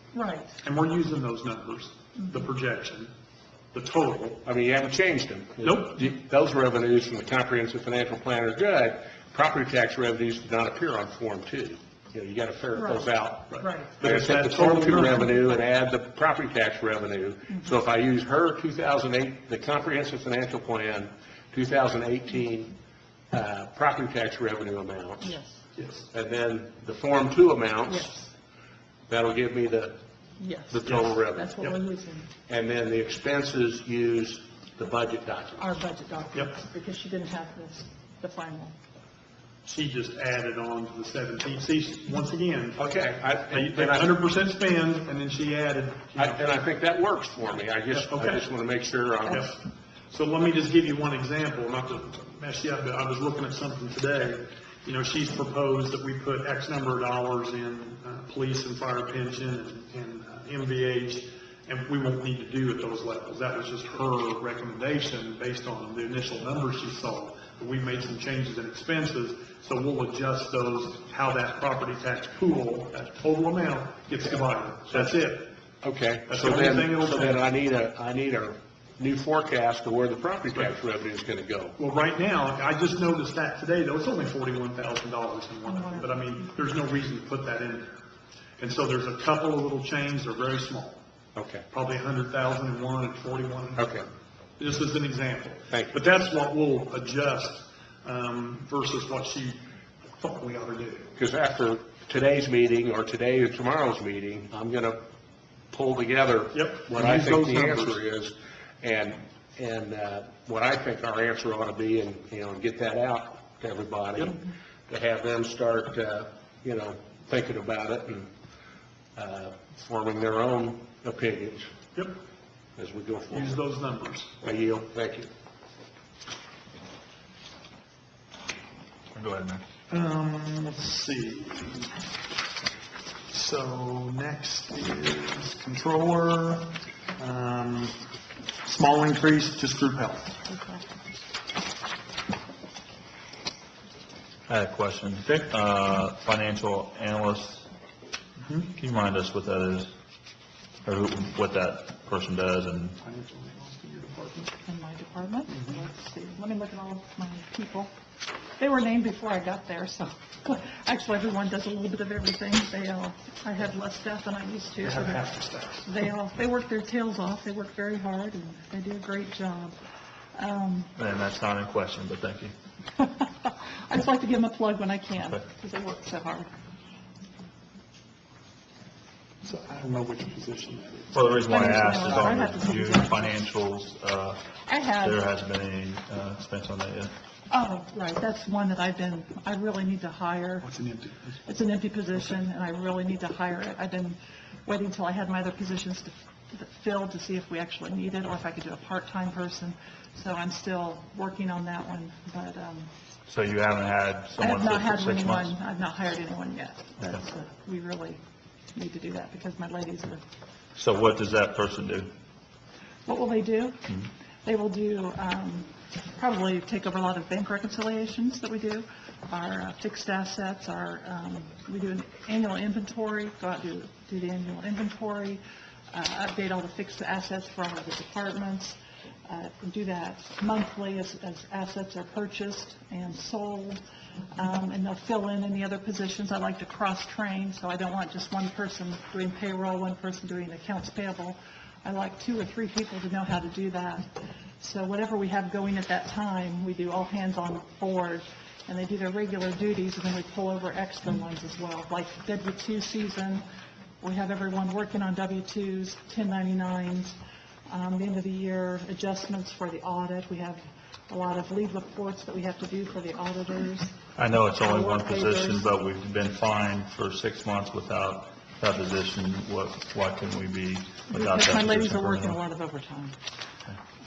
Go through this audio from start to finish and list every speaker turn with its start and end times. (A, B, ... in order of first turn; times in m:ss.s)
0:00.1-0:00.5 A
0:00.6-0:03.1 B
0:03.7-0:04.4 B
0:04.4-0:22.7 C
0:05.6-0:06.0 B
0:12.7-0:14.0 A
0:13.5-0:15.3 B
0:23.3-0:25.3 C
0:25.2-0:25.6 A
0:25.8-0:26.1 B
0:26.1-0:28.1 C
0:27.9-0:28.3 A
0:29.1-0:30.0 C
0:30.4-0:32.3 A
0:30.7-0:31.5 C
0:30.8-0:31.7 B
0:32.5-0:35.6 C
0:35.6-0:38.7 A
0:39.6-0:42.8 B
0:42.8-0:44.1 C
0:43.5-0:46.4 B
0:46.2-0:49.5 C
0:47.9-0:48.5 B
0:49.3-1:15.5 B
1:15.8-1:21.8 C
1:16.3-1:17.4 B
1:21.8-1:28.0 B
1:25.7-1:26.2 A
1:28.6-1:31.0 B
1:31.3-1:31.6 C
1:31.7-1:34.0 B
1:33.8-1:34.1 C
1:34.6-1:41.1 B
1:35.7-1:36.0 C
1:41.2-1:45.0 C
1:45.7-1:58.3 C
1:46.5-1:48.0 B
1:59.2-2:01.7 C
2:02.8-2:03.6 C
2:03.3-2:04.3 B
2:04.4-2:05.3 C
2:09.1-2:09.6 D
2:09.9-2:11.9 B
2:13.3-2:18.0 B
2:18.6-2:20.4 B
2:20.5-2:20.8 A
2:24.5-2:27.7 D
2:28.7-2:29.9 D
2:30.8-2:33.0 D
2:33.0-2:34.5 B
2:34.6-2:37.9 A
2:38.6-2:45.2 A
2:44.8-2:45.9 B
2:45.8-2:49.8 A
2:50.4-2:50.9 A
2:51.0-2:52.5 D
2:53.2-2:56.5 A
2:59.4-3:02.6 B
3:01.1-3:07.1 D
3:01.5-3:03.4 A
3:04.6-3:05.2 A
3:07.5-3:10.7 A
3:10.6-3:11.4 B
3:11.4-3:22.9 A
3:23.3-3:25.5 D
3:24.4-3:28.2 A
3:28.7-3:30.2 A
3:30.8-3:32.1 D
3:33.0-3:45.4 A
3:45.9-3:53.8 A
3:54.4-4:13.4 A
4:14.0-4:17.1 A
4:17.7-4:24.0 A
4:24.2-4:32.4 D
4:24.6-4:25.6 A
4:31.1-4:33.1 A